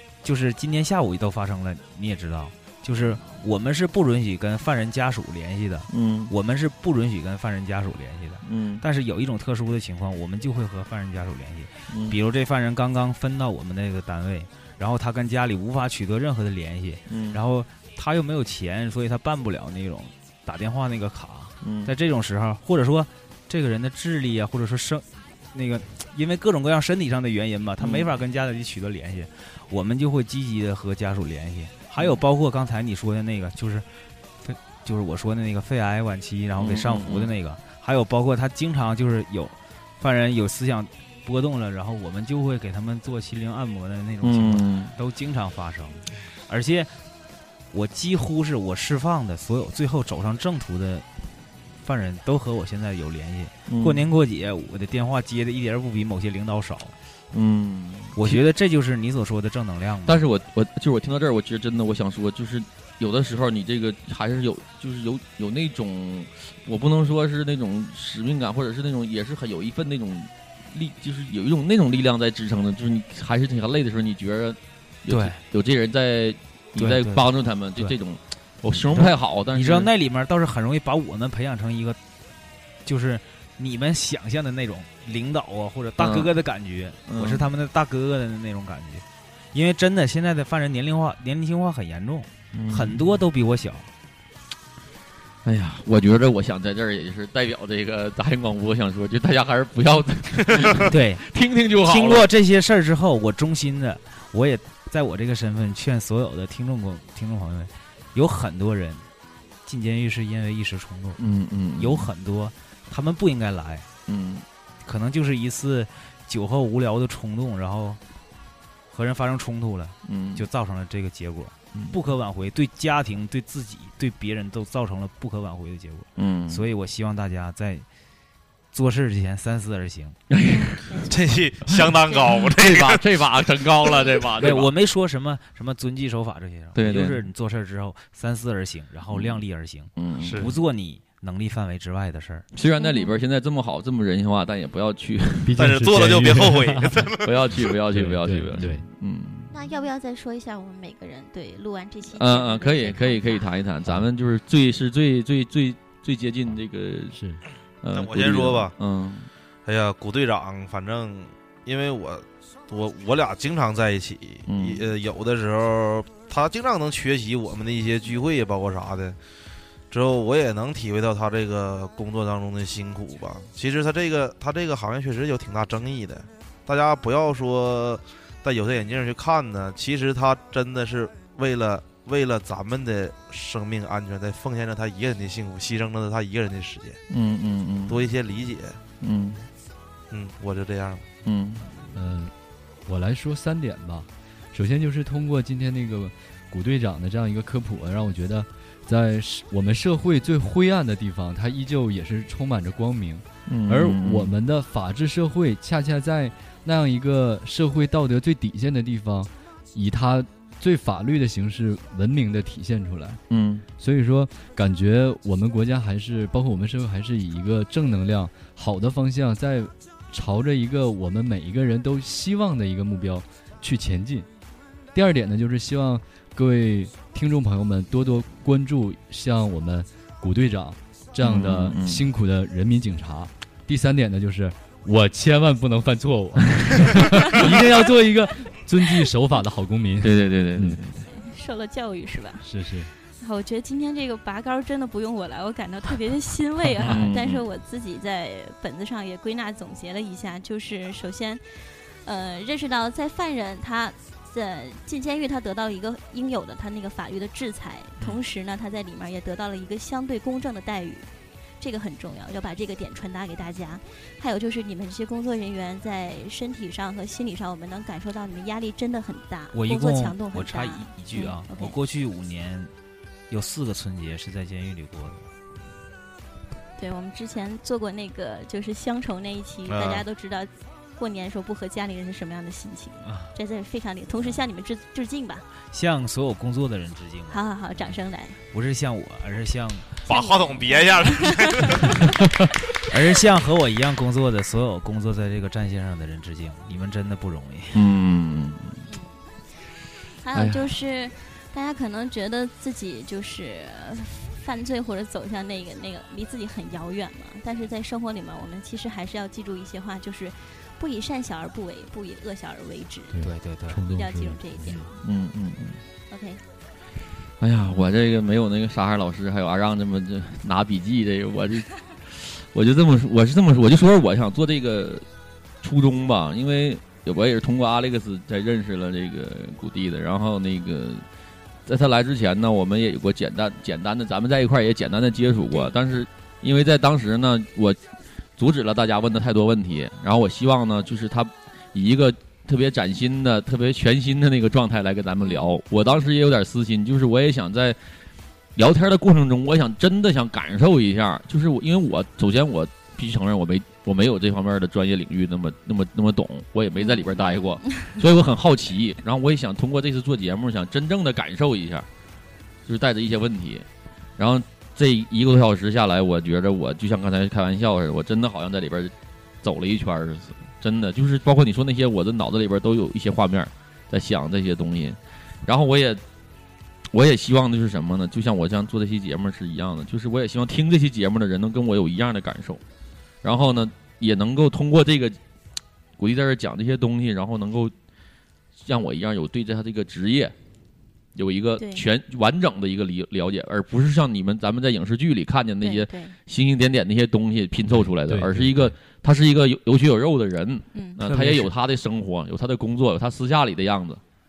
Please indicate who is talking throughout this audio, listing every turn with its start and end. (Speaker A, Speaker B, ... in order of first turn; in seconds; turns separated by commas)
Speaker A: 0.2-33.9, Speaker B: 5.9-6.3, Speaker B: 8.4-8.8, Speaker B: 11.9-12.2, Speaker B: 17.1-17.4, Speaker B: 21.6-21.9, Speaker B: 27.8-28.1, Speaker A: 34.4-47.0, Speaker B: 36.6-37.3, Speaker B: 44.2-45.0, Speaker A: 47.7-51.1, Speaker A: 51.8-57.0, Speaker B: 53.7-54.1, Speaker B: 57.3-58.4, Speaker A: 58.1-60.2, Speaker B: 60.1-79.9, Speaker A: 75.1-75.4, Speaker A: 76.8-78.0, Speaker A: 78.8-82.0, Speaker A: 82.8-93.9, Speaker B: 86.0-86.3, Speaker B: 87.1-87.5, Speaker B: 92.5-93.0, Speaker B: 95.5-102.3, Speaker A: 100.8-101.3, Speaker A: 101.8-109.1, Speaker A: 109.7-111.2, Speaker B: 111.2-112.1, Speaker A: 111.8-113.9, Speaker B: 114.1-114.5, Speaker A: 114.8-118.0, Speaker A: 118.9-127.9, Speaker B: 120.1-120.5, Speaker B: 126.2-126.7, Speaker A: 128.7-130.2, Speaker B: 130.3-131.0, Speaker C: 130.5-131.2, Speaker D: 131.1-133.1, Speaker B: 131.7-134.7, Speaker A: 134.4-142.5, Speaker B: 136.8-137.2, Speaker B: 139.1-139.4, Speaker B: 140.0-140.5, Speaker D: 140.2-140.5, Speaker B: 142.5-145.7, Speaker C: 142.8-143.2, Speaker E: 145.4-147.1, Speaker D: 145.6-147.7, Speaker B: 147.2-149.5, Speaker E: 147.9-148.9, Speaker C: 149.5-153.5, Speaker B: 152.1-157.2, Speaker E: 157.1-157.4, Speaker B: 157.8-159.3, Speaker D: 157.9-158.8, Speaker D: 159.7-169.2, Speaker B: 164.5-164.8, Speaker D: 169.9-187.0, Speaker B: 187.1-188.1, Speaker D: 187.9-188.8, Speaker B: 189.0-189.5, Speaker D: 190.1-191.1, Speaker B: 191.2-191.7, Speaker E: 191.9-192.3, Speaker E: 192.9-213.2, Speaker B: 203.5-204.3, Speaker B: 213.3-213.7, Speaker E: 213.8-224.3, Speaker E: 224.9-240.8, Speaker B: 231.2-232.1, Speaker B: 240.0-241.1, Speaker C: 241.1-242.5, Speaker E: 242.4-242.9, Speaker C: 243.1-261.1, Speaker B: 246.9-247.4, Speaker C: 261.6-271.8, Speaker A: 269.5-272.7, Speaker A: 273.3-275.3, Speaker C: 276.8-285.5, Speaker D: 279.7-280.1, Speaker A: 283.0-283.4, Speaker A: 285.7-287.5, Speaker C: 287.3-288.4, Speaker A: 288.5-290.0, Speaker D: 290.1-292.0, Speaker C: 290.1-292.1, Speaker A: 292.9-297.9, Speaker B: 297.7-298.9, Speaker C: 298.9-299.2, Speaker C: 300.2-313.2, Speaker B: 300.4-300.7, Speaker E: 313.1-314.9, Speaker A: 313.2-313.8, Speaker C: 313.9-315.0, Speaker B: 315.0-315.8, Speaker C: 316.1-316.4, Speaker B: 317.4-325.1, Speaker B: 325.6-331.1, Speaker B: 331.7-337.8, Speaker C: 335.5-335.8, Speaker B: 338.4-347.8, Speaker C: 345.2-345.6, Speaker B: 348.6-361.9, Speaker C: 356.8-357.8, Speaker B: 362.7-363.7, Speaker B: 364.2-376.0, Speaker B: 376.9-382.6, Speaker B: 383.2-385.2, Speaker B: 386.0-387.7, Speaker B: 388.6-390.4, Speaker B: 391.1-404.0, Speaker C: 391.6-391.9, Speaker C: 395.6-396.2, Speaker E: 397.7-398.8, Speaker C: 400.7-401.0, Speaker A: 401.0-401.5